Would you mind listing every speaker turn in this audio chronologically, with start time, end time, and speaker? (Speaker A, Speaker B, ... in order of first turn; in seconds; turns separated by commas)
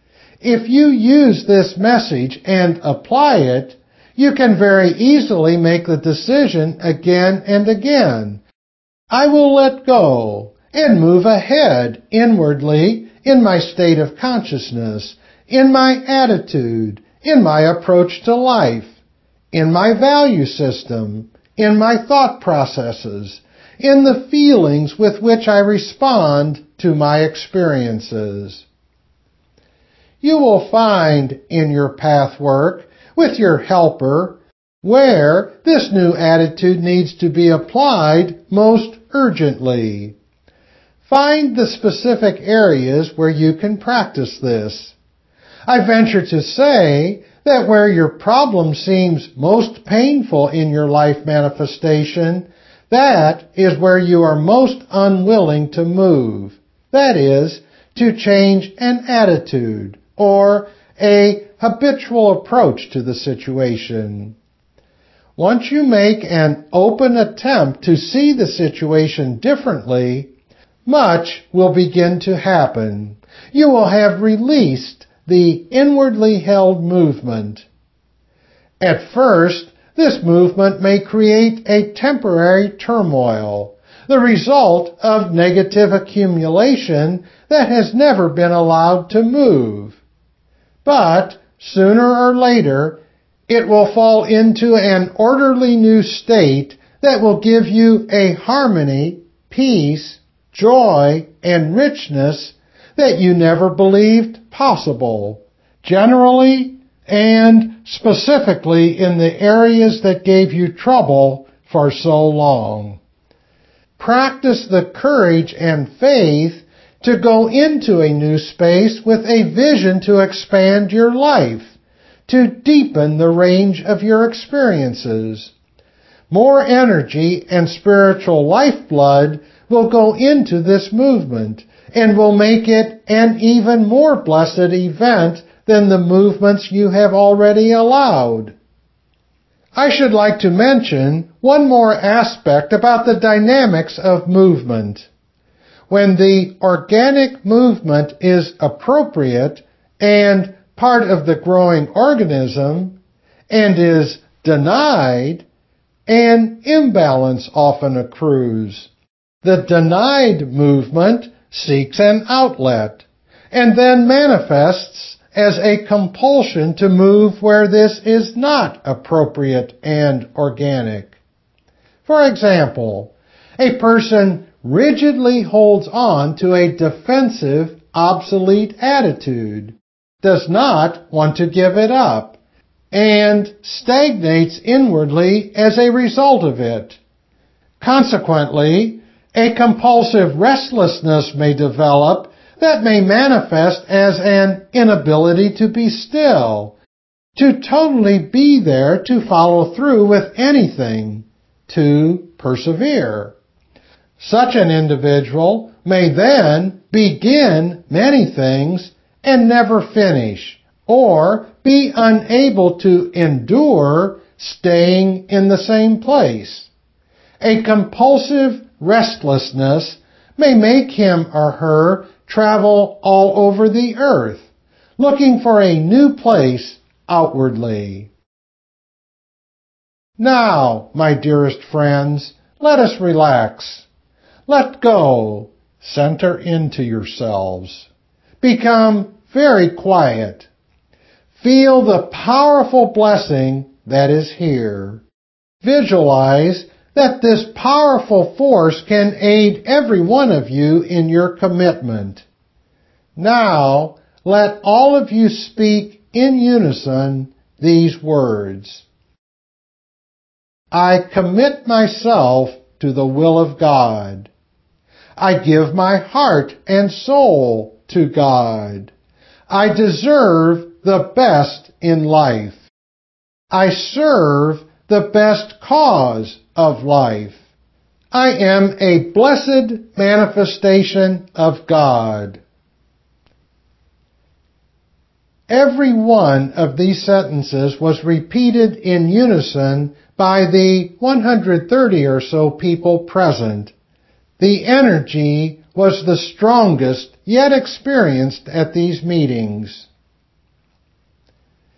Speaker A: 0.4-8.4, Speaker A: 9.1-18.9, Speaker A: 19.5-28.6, Speaker A: 30.2-40.1, Speaker A: 41.0-44.9, Speaker A: 45.7-64.3, Speaker A: 65.3-70.3, Speaker A: 70.8-77.7, Speaker A: 78.8-90.0, Speaker A: 90.8-113.0, Speaker A: 114.0-121.7, Speaker A: 122.3-125.5, Speaker A: 126.3-138.5, Speaker A: 139.7-145.1, Speaker A: 145.9-152.9, Speaker A: 153.5-155.4, Speaker A: 156.1-158.9, Speaker A: 159.4-171.2, Speaker A: 172.0-182.4, Speaker A: 182.9-187.0, Speaker A: 187.8-196.8, Speaker A: 197.3-203.3, Speaker A: 204.2-216.7, Speaker A: 217.4-224.5, Speaker A: 225.0-228.1, Speaker A: 230.2-233.8, Speaker A: 234.5-237.9, Speaker A: 238.4-240.5, Speaker A: 241.4-245.0, Speaker A: 245.6-252.2, Speaker A: 253.2-258.8, Speaker A: 260.7-264.3, Speaker A: 265.2-268.9, Speaker A: 269.5-272.7, Speaker A: 273.5-277.4, Speaker A: 278.1-282.4, Speaker A: 285.5-293.7, Speaker A: 294.4-299.9